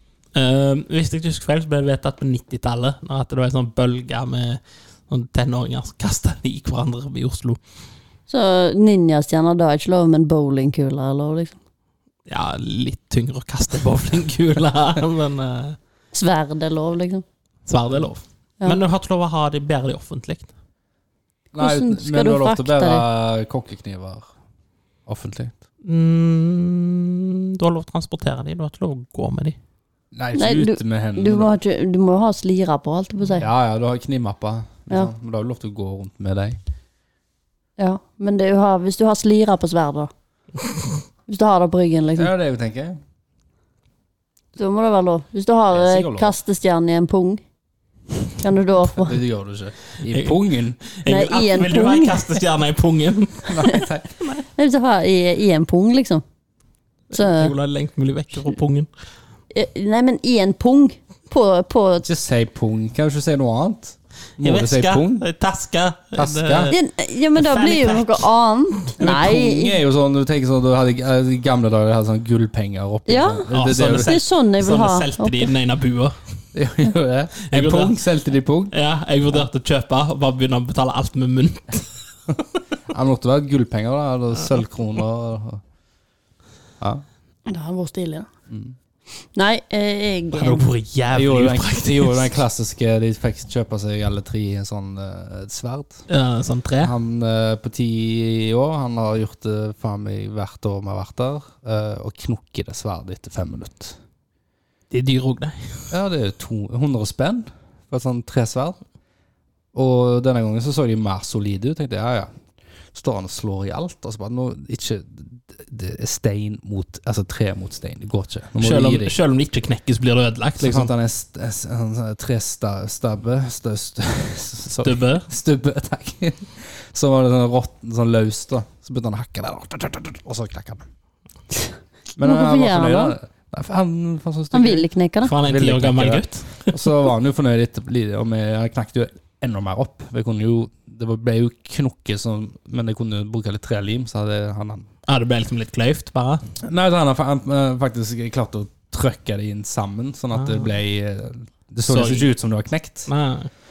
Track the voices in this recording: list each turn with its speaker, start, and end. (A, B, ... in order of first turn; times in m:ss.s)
0:00.3-0:07.6 A
0:08.3-0:11.6 B
0:12.3-0:15.8 A
0:16.1-0:17.2 B
0:17.6-0:20.5 A
0:21.5-0:24.3 C
0:21.6-0:23.0 B
0:25.0-0:25.6 C
0:25.8-0:29.6 A
0:30.1-0:31.5 C
0:30.3-0:33.4 B
0:33.4-0:36.6 C
0:37.8-0:40.1 B
0:41.3-0:42.3 B
0:42.2-0:43.0 C
0:44.6-0:47.4 B
0:45.7-0:46.3 C
0:48.4-0:49.2 B
0:48.9-0:50.8 C
0:50.1-0:53.7 A
0:51.0-0:52.4 B
0:53.4-0:54.1 C
0:54.6-0:56.2 B
0:57.1-0:58.9 A
0:57.1-0:57.5 B
0:59.5-1:02.1 B
1:02.0-1:05.2 C
1:04.4-1:06.8 A
1:06.2-1:06.7 C
1:06.7-1:09.8 B
1:07.3-1:08.2 A
1:09.0-1:14.2 C
1:13.1-1:15.5 B
1:13.5-1:16.2 A
1:16.5-1:18.7 C
1:17.5-1:18.0 A
1:18.7-1:21.9 A
1:22.9-1:25.6 C
1:27.5-1:28.3 B
1:28.5-1:28.8 C
1:29.3-1:30.7 B
1:30.3-1:32.3 A
1:31.1-1:36.0 C
1:36.1-1:36.9 A
1:36.8-1:44.0 C
1:44.9-1:45.9 A
1:45.9-1:48.8 C
1:49.7-1:52.3 C
1:52.9-1:59.1 C
1:58.6-2:00.9 A
2:00.6-2:10.8 C
2:04.8-2:05.3 A
2:11.6-2:13.2 B
2:12.2-2:14.9 C
2:14.5-2:15.3 B
2:15.2-2:16.8 A
2:15.4-2:24.9 C
2:25.1-2:26.4 A
2:26.6-2:33.1 C
2:30.3-2:30.6 A
2:31.9-2:32.3 A
2:33.1-2:33.5 A